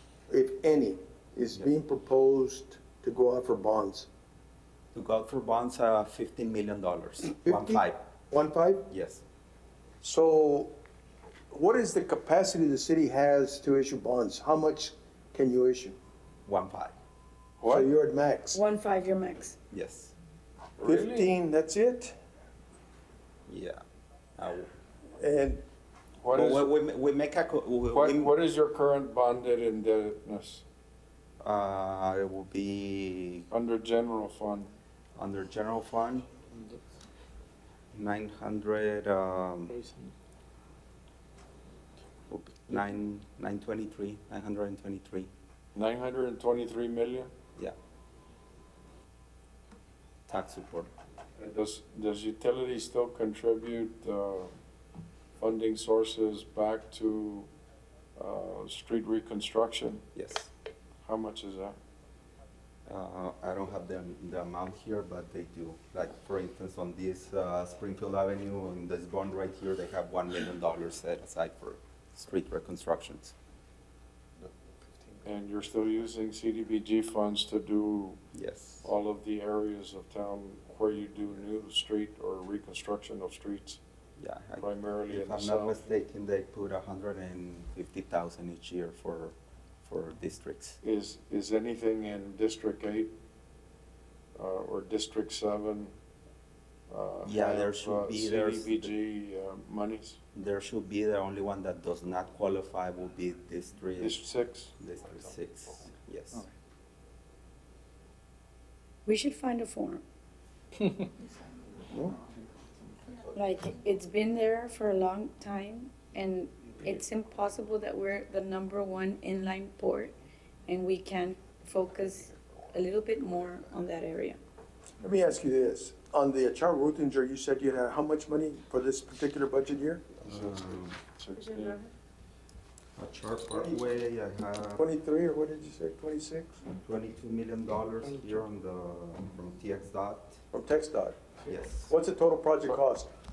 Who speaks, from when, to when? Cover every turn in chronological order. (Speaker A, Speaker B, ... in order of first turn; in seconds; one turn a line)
Speaker A: 0.3-4.1
Speaker B: 4.9-8.0
Speaker A: 7.3-8.9
Speaker B: 8.9-9.2
Speaker A: 10.0-10.8
Speaker A: 11.5-16.0
Speaker B: 16.4-16.9
Speaker C: 17.6-17.9
Speaker A: 17.7-18.6
Speaker D: 18.5-19.6
Speaker B: 19.7-20.1
Speaker C: 20.8-21.3
Speaker A: 20.8-22.1
Speaker B: 23.5-23.8
Speaker B: 24.4-24.7
Speaker A: 25.2-25.6
Speaker C: 26.2-26.7
Speaker B: 26.3-28.3
Speaker C: 27.9-30.6
Speaker B: 31.4-33.5
Speaker C: 33.5-34.7
Speaker B: 35.1-36.3
Speaker B: 37.9-39.8
Speaker B: 42.3-45.3
Speaker C: 45.7-47.3
Speaker B: 50.3-50.9
Speaker C: 51.4-54.5
Speaker C: 55.4-57.5
Speaker C: 58.1-60.0
Speaker B: 60.1-60.5
Speaker C: 61.0-61.8
Speaker B: 62.9-73.3
Speaker C: 75.2-78.2
Speaker B: 78.3-78.9
Speaker C: 78.8-83.8
Speaker B: 84.2-90.8
Speaker C: 84.6-85.8
Speaker C: 90.8-93.1
Speaker C: 94.3-95.9
Speaker C: 96.9-100.2
Speaker B: 97.2-98.9
Speaker B: 100.3-104.2
Speaker C: 104.0-104.7
Speaker B: 104.8-106.4
Speaker D: 109.0-110.0
Speaker A: 111.9-112.2
Speaker D: 113.3-120.1
Speaker D: 120.7-124.4
Speaker A: 125.0-130.0
Speaker B: 130.2-131.0
Speaker C: 130.2-131.8
Speaker D: 131.3-131.9
Speaker B: 132.9-134.9
Speaker A: 133.5-133.8
Speaker A: 134.8-136.6
Speaker B: 136.8-140.4
Speaker A: 140.5-141.2
Speaker B: 141.4-141.9
Speaker A: 141.9-143.1